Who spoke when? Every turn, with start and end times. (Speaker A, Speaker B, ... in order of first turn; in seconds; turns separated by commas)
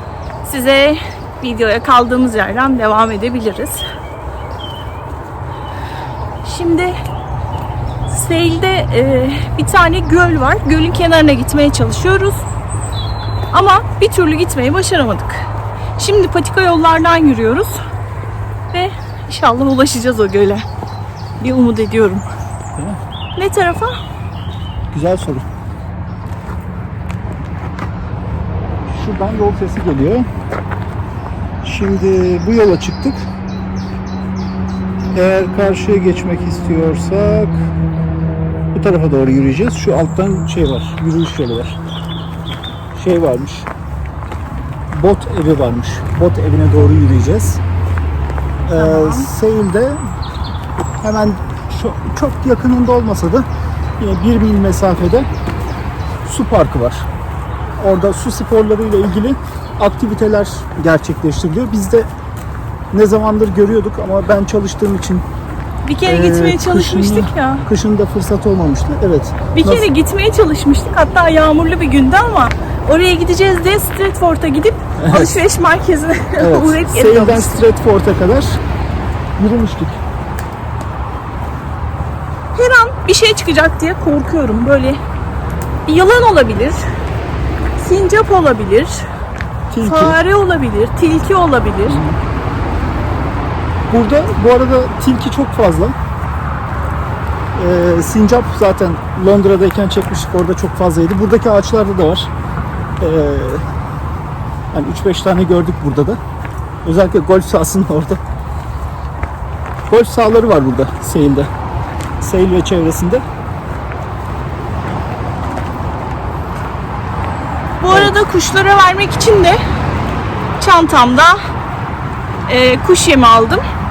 Speaker A: 0.4-3.8, Speaker A: 6.4-6.9, Speaker A: 8.1-12.4, Speaker A: 13.5-15.4, Speaker A: 16.0-17.8, Speaker A: 18.7-20.6, Speaker A: 21.4-22.2, Speaker A: 23.4-23.9, Speaker B: 24.9-25.4, Speaker B: 28.9-30.3, Speaker B: 31.6-33.2, Speaker B: 35.1-37.7, Speaker B: 38.7-41.8, Speaker B: 42.9-43.7, Speaker B: 44.9-47.6, Speaker B: 48.6-50.0, Speaker A: 48.7-49.3, Speaker B: 51.0-53.5, Speaker B: 54.0-55.3, Speaker B: 56.2-57.1, Speaker B: 57.8-62.1, Speaker B: 62.9-65.2, Speaker A: 65.8-67.7, Speaker B: 66.0-69.9, Speaker A: 69.5-77.6, Speaker B: 75.0-75.4, Speaker B: 76.4-78.6, Speaker B: 79.4-80.0, Speaker A: 82.5-85.0, Speaker A: 85.8-86.8, Speaker A: 87.8-89.0, Speaker B: 89.7-90.2, Speaker A: 89.8-92.0, Speaker B: 91.9-92.2, Speaker B: 93.9-95.9, Speaker B: 97.5-102.3, Speaker B: 103.0-103.6, Speaker B: 104.7-106.2, Speaker B: 106.8-108.2, Speaker B: 109.9-111.5, Speaker B: 112.2-113.2, Speaker A: 117.8-119.6, Speaker B: 117.9-118.2, Speaker A: 120.6-121.4, Speaker A: 122.5-123.6